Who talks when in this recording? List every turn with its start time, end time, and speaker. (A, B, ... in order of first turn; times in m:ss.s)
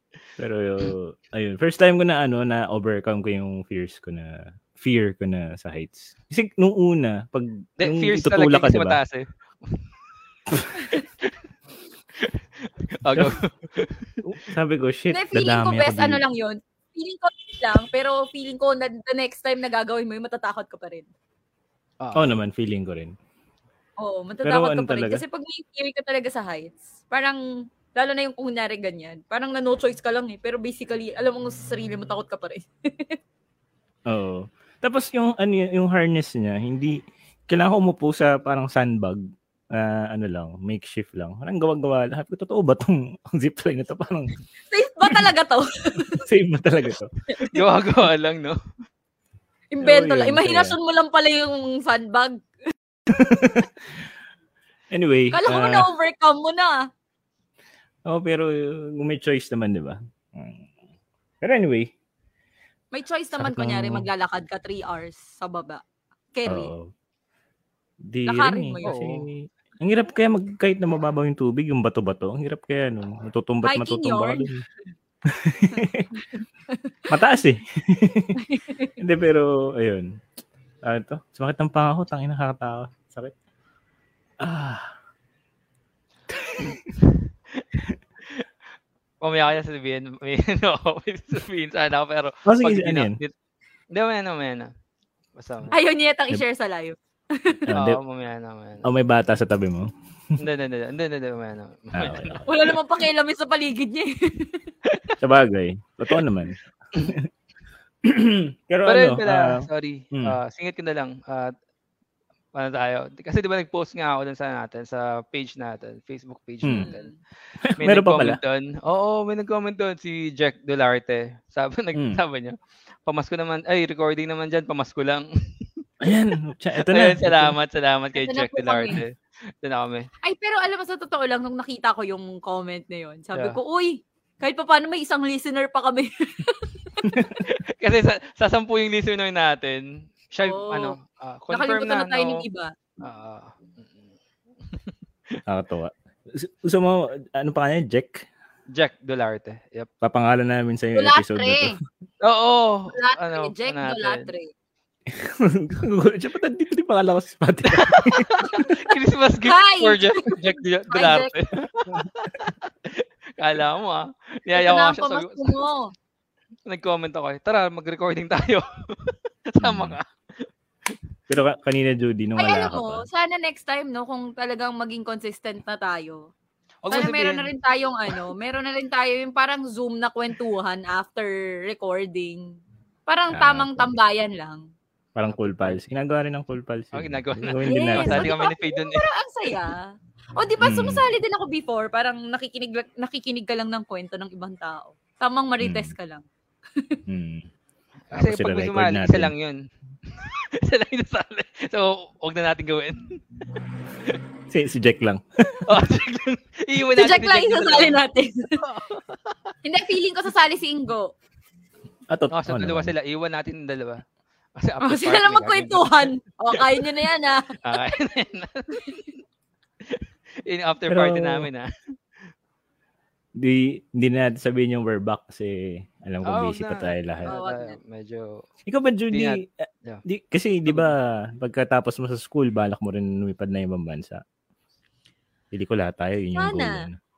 0:00.4-0:09.0 A
0:07.8-0:09.9 B
0:10.5-0:10.9 A
0:12.2-0:14.1 B
0:14.2-0:16.2 A
0:15.1-0:21.1 C
0:22.0-0:22.4 B
0:22.1-0:23.1 A
0:24.0-0:27.4 C
0:24.4-0:25.2 A
0:27.9-0:33.2 C
0:34.1-0:39.2 A
0:39.7-0:44.3 A
0:44.7-0:46.2 C
0:46.2-0:47.1 A
0:47.3-0:47.6 C
0:47.4-0:48.6 B
0:49.7-0:52.4 C
0:49.8-0:50.8 A
0:53.1-0:54.0 A
0:54.9-0:55.9 A
0:55.3-0:56.9 C
0:58.1-1:00.7 A
1:01.4-1:01.9 A
1:02.9-1:05.8 C
1:03.4-1:04.1 A
1:06.3-1:06.7 C
1:06.5-1:06.9 A
1:08.0-1:14.6 A
1:08.3-1:09.0 C
1:08.8-1:09.3 B
1:13.6-1:14.5 C
1:15.3-1:16.1 A
1:15.7-1:16.9 C
1:17.1-1:18.4 A
1:18.4-1:18.9 C
1:19.0-1:20.1 A
1:20.8-1:23.4 A
1:24.4-1:24.9 A
1:29.2-1:33.3 B
1:32.4-1:33.2 A
1:33.9-1:34.7 B
1:35.4-1:35.7 B
1:35.7-1:37.7 C
1:37.7-1:38.0 A
1:37.7-1:38.9 B
1:38.8-1:39.9 A
1:40.4-1:42.4 B
1:41.9-1:42.5 A
1:42.4-1:44.7 C
1:44.9-1:45.1 B
1:45.2-1:47.3 A
1:48.0-1:49.6 A
1:48.9-1:51.5 B
1:52.6-1:57.1 B
1:56.6-1:56.9 A
1:56.7-1:57.2 C
1:57.7-1:58.4 A
1:57.8-2:02.6 B
2:02.0-2:02.2 A
2:03.0-2:05.3 B
2:06.0-2:07.6 A
2:06.8-2:10.1 B
2:08.1-2:09.0 C
2:10.2-2:17.0 C
2:17.0-2:17.4 A
2:17.4-2:22.4 B
2:20.4-2:21.0 C
2:21.5-2:22.7 C
2:23.0-2:24.1 B
2:24.7-2:25.4 B
2:25.5-2:28.3 A
2:28.7-2:29.9 B
2:30.0-2:31.7 A
2:31.0-2:31.8 C
2:32.2-2:34.3 B
2:32.9-2:34.5 C
2:35.1-2:38.7 A
2:37.7-2:45.6 B
2:39.4-2:41.3 C
2:44.5-2:45.9 C
2:46.7-2:50.9 B
2:49.6-2:50.0 A
2:51.3-2:53.0 A
2:52.4-2:56.3 C
2:56.8-2:57.5 B
2:56.9-3:04.6 C
3:03.3-3:03.9 A
3:05.2-3:08.3 A
3:05.3-3:05.8 B
3:06.9-3:09.0 B
3:07.6-3:16.2 C
3:10.6-3:11.0 A
3:15.6-3:15.9 A
3:17.1-3:17.5 A
3:18.1-3:19.6 B
3:18.1-3:19.3 A
3:20.1-3:23.2 B
3:24.5-3:25.7 A
3:25.7-3:28.0 B
3:27.0-3:28.6 C
3:28.6-3:29.4 B
3:29.6-3:31.1 C
3:32.1-3:32.9 A
3:32.3-3:34.0 B
3:34.6-3:36.9 B
3:34.8-3:37.9 C
3:37.6-3:39.1 B
3:39.9-3:41.7 B
3:40.9-3:41.5 A
3:43.4-3:47.3 A
3:46.2-3:48.4 B
3:47.3-3:47.8 C
3:48.7-3:54.2 A
3:49.1-3:50.0 B
3:50.7-3:50.9 B
3:55.5-3:57.0 A
3:56.4-3:56.9 C